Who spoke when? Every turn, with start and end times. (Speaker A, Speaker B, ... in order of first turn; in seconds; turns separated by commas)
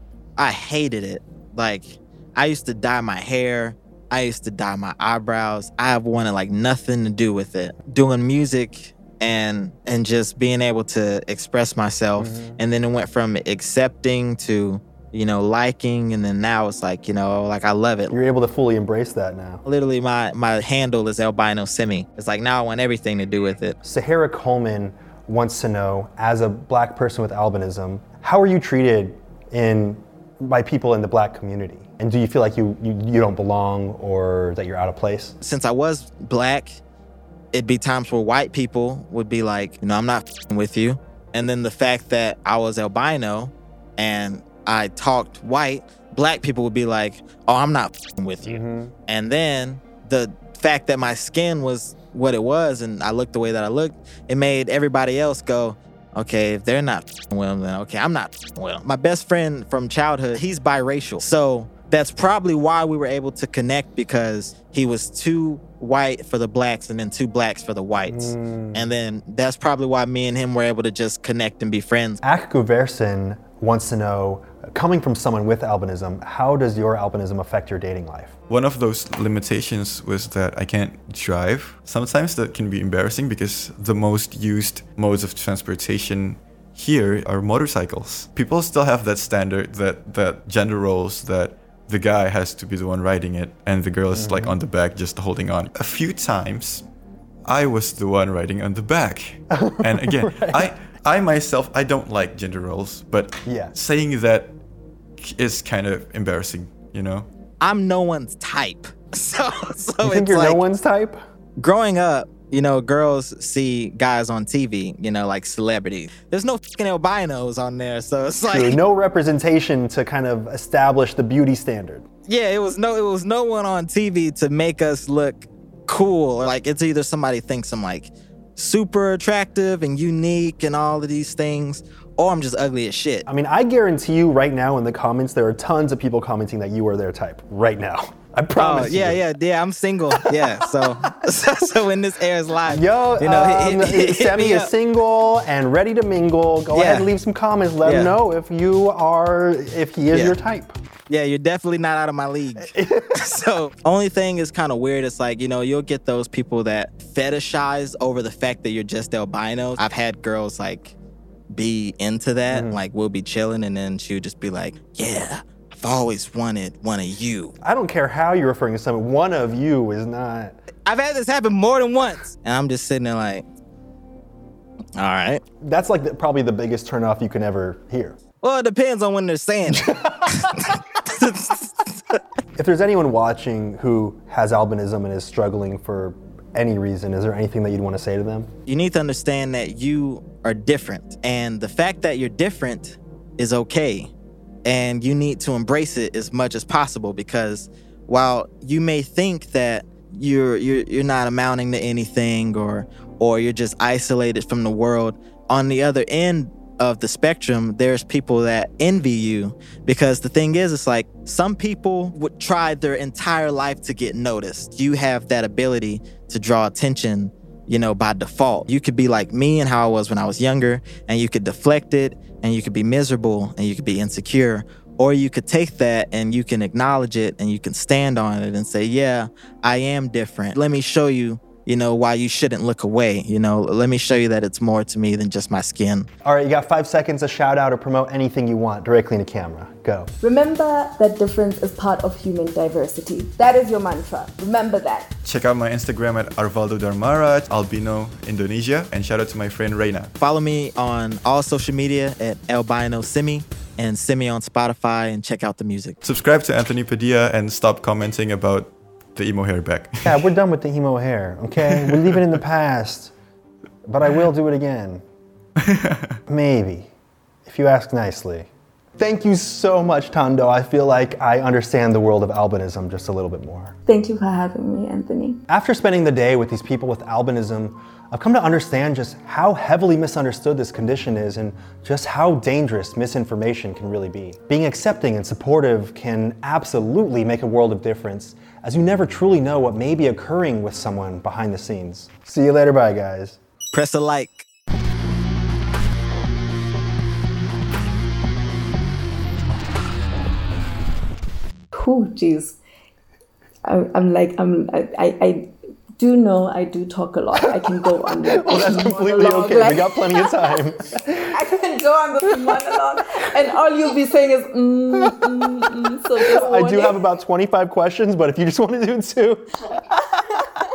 Speaker A: 0.4-18.1, Speaker B: 12.2-12.6, Speaker B: 18.1-19.6, Speaker A: 19.6-23.8, Speaker B: 23.8-35.4, Speaker A: 35.4-36.8, Speaker A: 37.5-72.2, Speaker B: 48.4-48.9, Speaker B: 68.1-68.9, Speaker B: 72.2-78.3, Speaker C: 78.5-96.8, Speaker B: 94.1-94.6, Speaker C: 97.4-104.6, Speaker B: 99.5-100.7, Speaker B: 103.5-103.7, Speaker C: 105.2-107.3, Speaker A: 107.6-110.6, Speaker B: 110.0-111.2, Speaker A: 111.6-118.8, Speaker B: 118.5-122.0, Speaker A: 122.2-133.2, Speaker B: 133.2-139.2, Speaker A: 138.6-144.7, Speaker B: 140.1-140.9, Speaker B: 142.7-150.8, Speaker A: 146.7-147.1, Speaker A: 147.8-148.1, Speaker A: 150.1-150.4, Speaker A: 151.1-160.9, Speaker B: 152.6-153.2, Speaker A: 161.5-167.5, Speaker B: 162.5-162.8, Speaker B: 167.6-170.6, Speaker A: 170.8-173.4, Speaker A: 175.0-175.4, Speaker B: 175.6-178.2, Speaker A: 178.4-182.1, Speaker B: 179.8-180.2, Speaker B: 182.6-188.5, Speaker A: 188.7-194.1, Speaker A: 194.6-236.1, Speaker B: 236.2-240.1, Speaker D: 240.2-245.1, Speaker C: 245.2-250.1, Speaker A: 250.2-256.0, Speaker C: 256.0-260.3, Speaker B: 260.0-263.1, Speaker C: 261.6-262.2, Speaker B: 263.9-265.0, Speaker C: 265.6-266.1, Speaker B: 266.3-266.9, Speaker B: 267.4-273.7, Speaker D: 273.9-275.4, Speaker B: 275.5-293.4, Speaker A: 293.7-294.4, Speaker D: 301.7-302.6, Speaker D: 303.6-310.8, Speaker B: 308.4-311.3, Speaker D: 311.3-317.0, Speaker B: 316.3-319.6, Speaker D: 319.7-320.6